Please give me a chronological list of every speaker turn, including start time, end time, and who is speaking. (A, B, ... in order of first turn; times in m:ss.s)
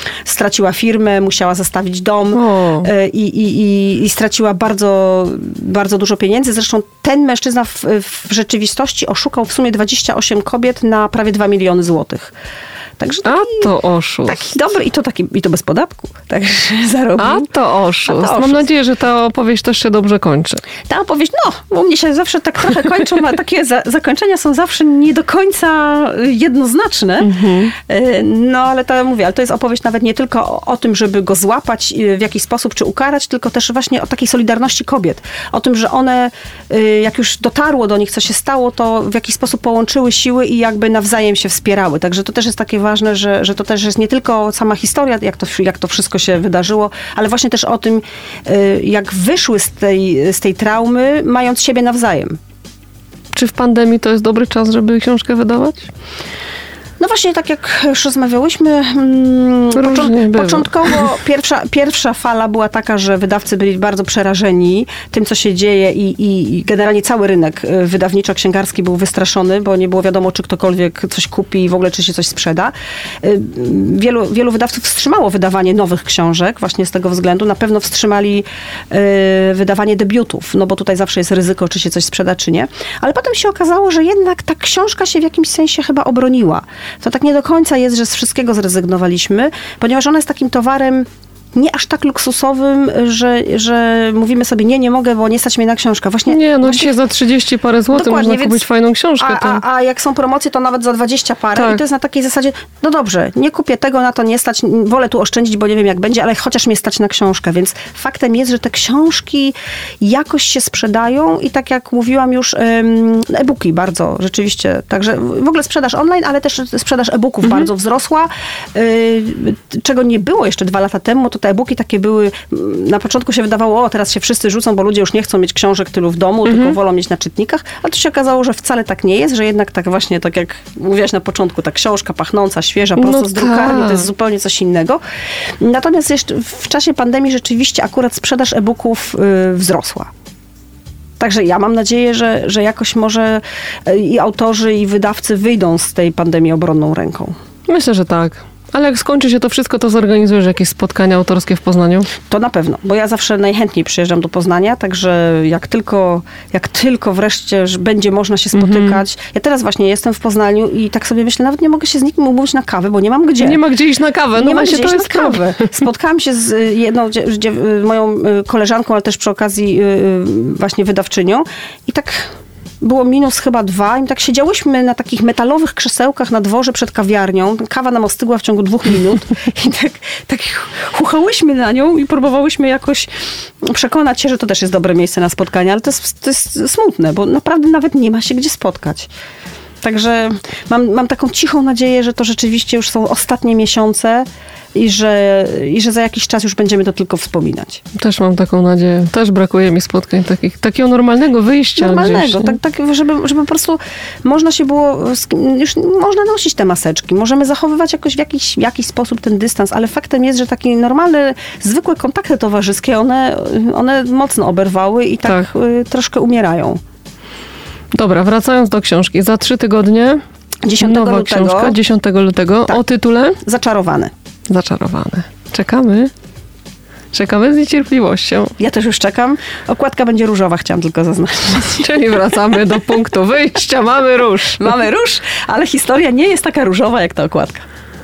0:00.2-0:12.3 A
0:02.3-0:02.9 B
0:13.0-0:13.7 A
0:13.2-0:14.4 B
0:14.2-0:17.5 A
0:17.2-0:20.6 B
0:18.0-0:18.7 A
0:20.9-0:52.4 A
0:27.2-0:27.7 B
0:53.3-0:55.9 B
0:57.0-1:36.9 A
0:59.7-1:01.0 B
1:36.3-1:39.6 B
1:37.9-1:38.6 A
1:39.2-2:15.0 A
1:41.5-1:41.8 B
2:06.4-2:06.8 B
2:13.0-2:14.1 B
2:15.6-2:20.1 A
2:21.2-2:27.3 A
2:27.7-2:32.1 B
2:32.3-2:43.6 A
2:38.5-2:39.0 B
2:43.4-2:45.7 B
2:44.3-3:03.1 A
3:03.6-3:09.1 A
3:09.8-3:17.8 A
3:17.9-3:22.6 B
3:21.8-3:36.8 A
3:37.9-3:40.2 B
3:40.6-3:41.8 A
3:40.8-3:43.4 B
3:43.4-3:44.1 A
3:44.5-3:46.1 B
3:47.1-3:48.6 B
3:48.6-3:52.5 A
3:51.8-3:54.7 B
3:54.6-3:57.6 A